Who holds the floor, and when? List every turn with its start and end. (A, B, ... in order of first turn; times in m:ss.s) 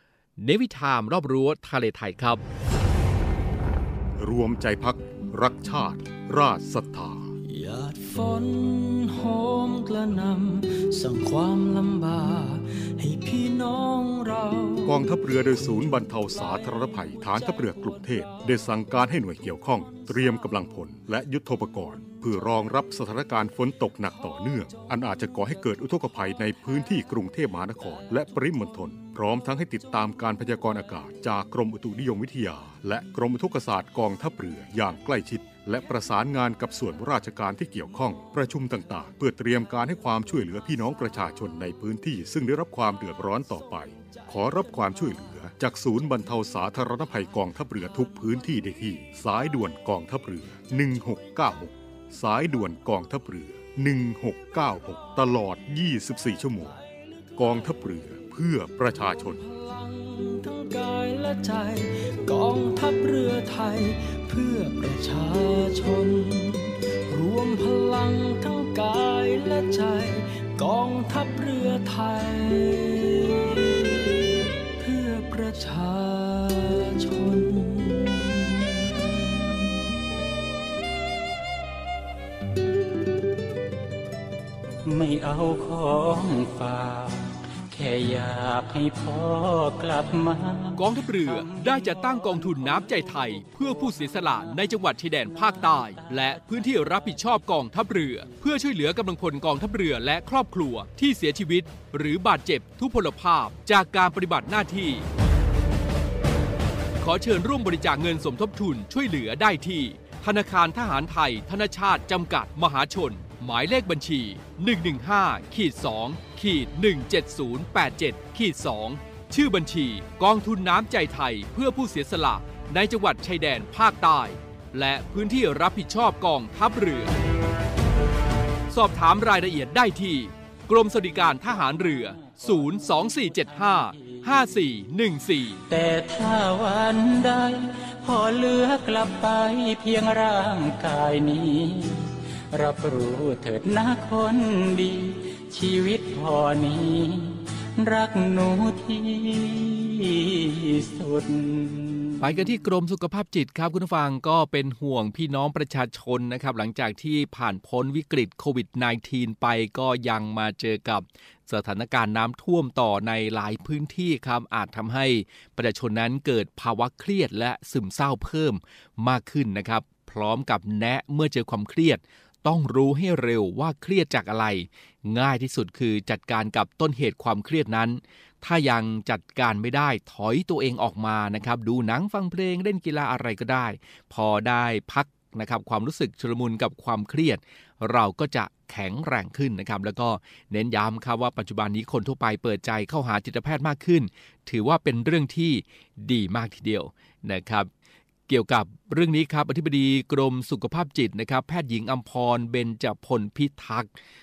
0:00.4-0:02.4 A
0:04.2-0:07.3 B
0:07.4-0:21.0 C
0:14.9-0:56.8 B
0:22.0-0:22.9 C
0:23.8-0:26.8 C
0:57.4-0:59.4 B
0:59.4-1:14.0 C
1:14.8-1:19.1 C
1:24.8-1:38.6 D
1:30.8-1:45.1 A
1:47.0-2:07.1 A
2:08.7-2:15.6 A
2:11.2-2:14.4 D
2:15.7-2:32.4 D
2:32.2-3:17.7 A
3:18.3-3:23.9 A